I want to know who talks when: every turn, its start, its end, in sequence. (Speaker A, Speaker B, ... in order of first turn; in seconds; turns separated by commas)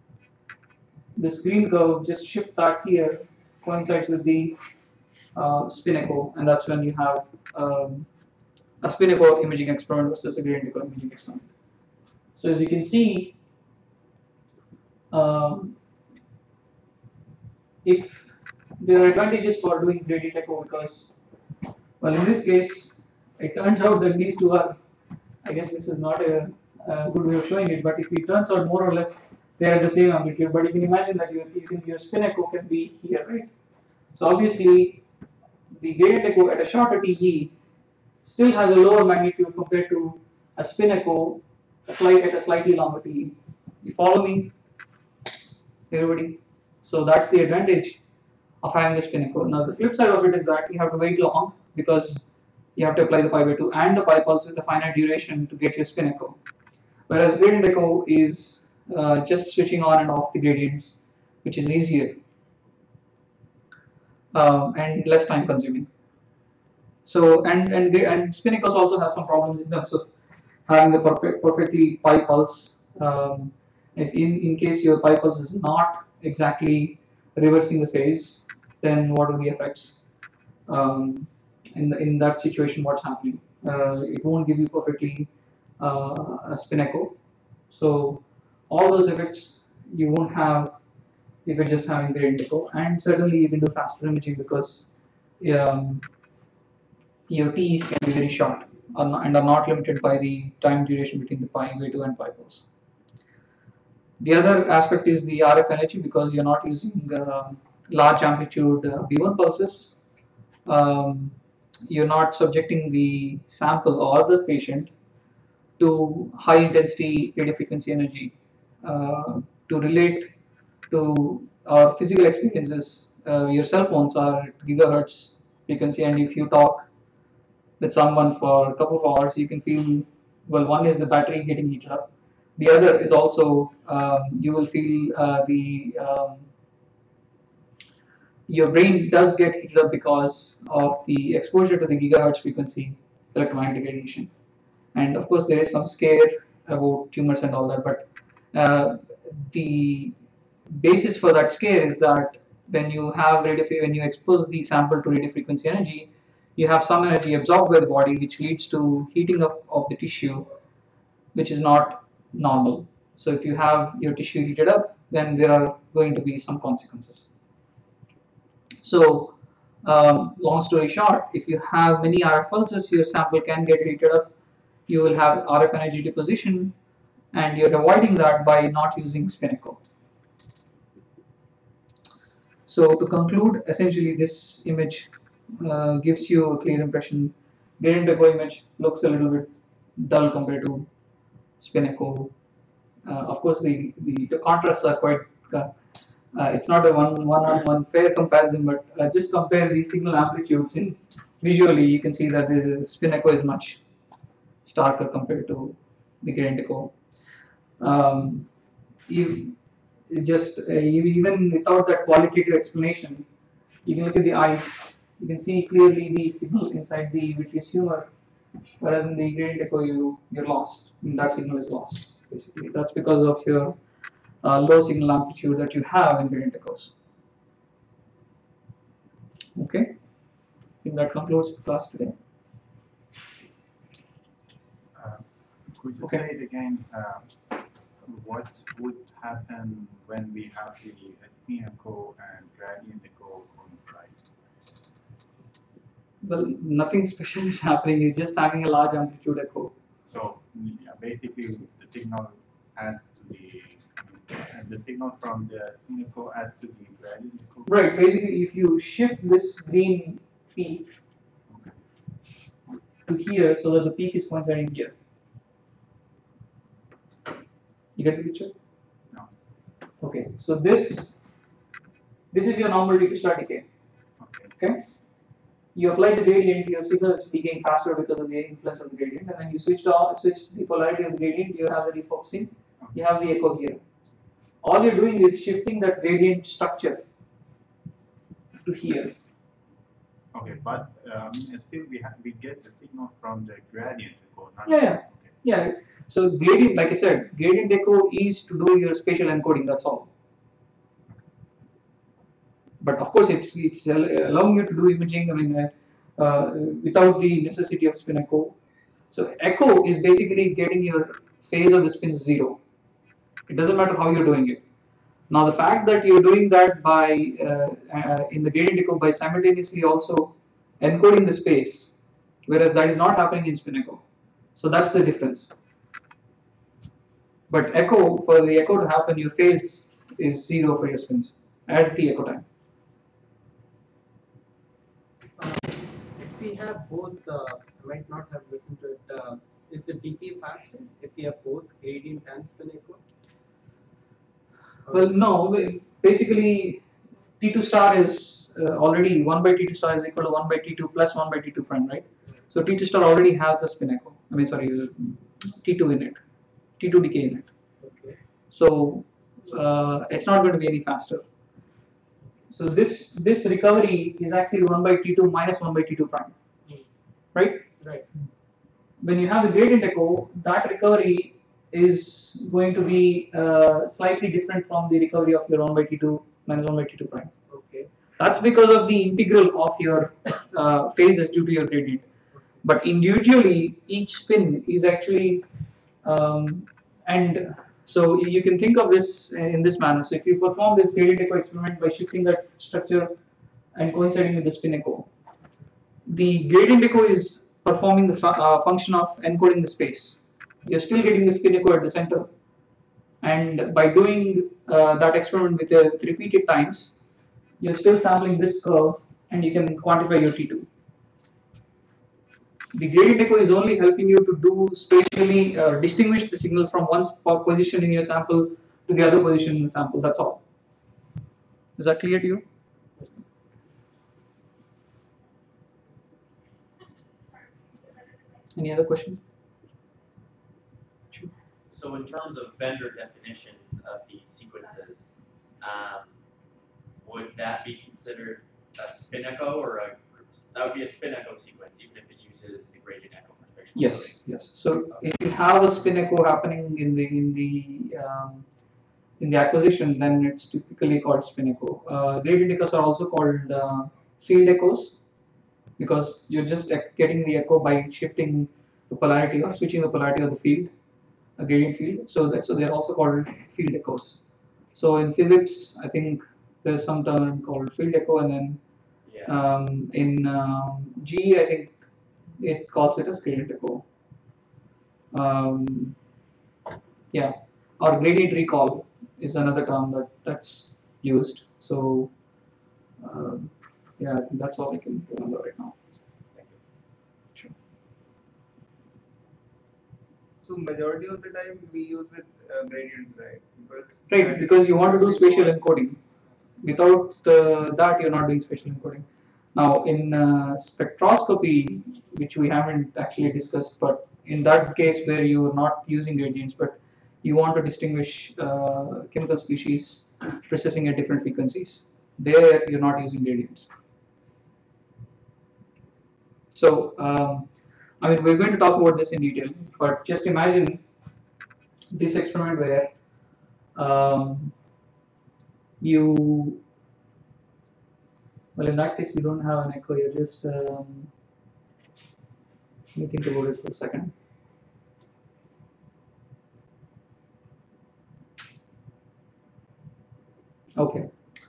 Speaker A: 1.1-4.5, Speaker A: 5.3-8.1, Speaker A: 8.8-11.5, Speaker A: 12.3-13.3, Speaker A: 15.1-15.8, Speaker A: 17.8-21.1, Speaker A: 22.0-24.8, Speaker A: 25.4-33.5, Speaker A: 34.1-35.0, Speaker A: 35.7-37.5, Speaker A: 38.2-44.5, Speaker A: 45.9-48.0, Speaker A: 48.6-52.2, Speaker A: 52.7-56.4, Speaker A: 57.1-62.2, Speaker A: 64.3-65.9, Speaker A: 67.0-70.1, Speaker A: 70.7-80.0, Speaker A: 80.7-87.2, Speaker A: 87.7-90.7, Speaker A: 91.4-94.9, Speaker A: 95.4-96.1, Speaker A: 97.3-102.7, Speaker A: 104.2-110.0, Speaker A: 110.6-111.3, Speaker A: 111.9-114.9, Speaker A: 115.8-120.3, Speaker A: 120.9-126.9, Speaker A: 127.8-136.4, Speaker A: 138.5-144.3, Speaker A: 144.9-150.1, Speaker A: 150.7-160.5, Speaker A: 161.3-167.3, Speaker A: 168.8-174.3, Speaker A: 174.9-176.7, Speaker A: 177.3-179.8, Speaker A: 182.7-190.9, Speaker A: 191.6-192.3, Speaker A: 193.1-195.7, Speaker A: 196.3-203.8, Speaker A: 204.6-206.9, Speaker A: 207.8-208.5, Speaker A: 209.1-209.5, Speaker A: 210.1-213.2, Speaker A: 213.8-218.1, Speaker A: 218.8-223.7, Speaker A: 224.4-226.9, Speaker A: 229.5-229.9, Speaker A: 230.8-232.1, Speaker B: 234.9-237.4, Speaker B: 238.0-244.3, Speaker A: 246.2-249.7, Speaker B: 250.1-257.7, Speaker A: 257.6-260.9, Speaker B: 261.5-261.7, Speaker A: 263.1-264.9, Speaker A: 268.0-268.5, Speaker A: 270.0-271.2, Speaker A: 272.3-273.6, Speaker B: 274.2-274.5, Speaker A: 275.7-283.8, Speaker A: 284.6-287.0, Speaker A: 288.6-289.1, Speaker B: 290.3-295.3, Speaker A: 294.6-300.1, Speaker A: 302.8-308.5, Speaker A: 309.1-312.6, Speaker A: 313.5-314.6, Speaker A: 315.3-324.0, Speaker A: 324.5-325.5, Speaker A: 327.5-332.4, Speaker C: 335.4-343.0, Speaker C: 344.9-345.1, Speaker A: 344.9-346.8, Speaker A: 347.4-356.2, Speaker A: 356.8-357.5, Speaker C: 357.8-358.2, Speaker A: 358.5-361.2, Speaker A: 362.5-366.3, Speaker A: 367.3-367.7, Speaker C: 367.8-368.1, Speaker A: 369.0-377.3, Speaker C: 377.5-377.9, Speaker A: 378.2-382.0, Speaker A: 382.6-385.4, Speaker A: 386.0-393.1, Speaker A: 393.7-395.1, Speaker A: 396.1-402.3, Speaker A: 403.2-406.9, Speaker A: 407.6-410.7, Speaker A: 412.7-420.4, Speaker A: 421.8-422.4, Speaker C: 423.0-423.3, Speaker A: 428.5-429.2, Speaker D: 431.7-436.1, Speaker D: 437.0-444.2, Speaker A: 443.7-448.4, Speaker A: 449.2-455.0, Speaker A: 455.8-460.7, Speaker A: 461.4-464.2, Speaker A: 464.7-468.6, Speaker D: 469.1-469.3, Speaker A: 469.2-471.7, Speaker A: 472.4-473.8, Speaker A: 475.1-475.9, Speaker A: 477.1-482.1, Speaker A: 483.0-485.7, Speaker E: 490.4-495.6, Speaker A: 494.1-496.0, Speaker A: 496.6-513.7, Speaker A: 516.5-517.5, Speaker A: 518.0-520.8, Speaker A: 521.9-522.9, Speaker A: 523.7-524.5, Speaker A: 525.8-526.6, Speaker A: 528.5-531.1, Speaker A: 532.9-534.1, Speaker A: 540.8-541.1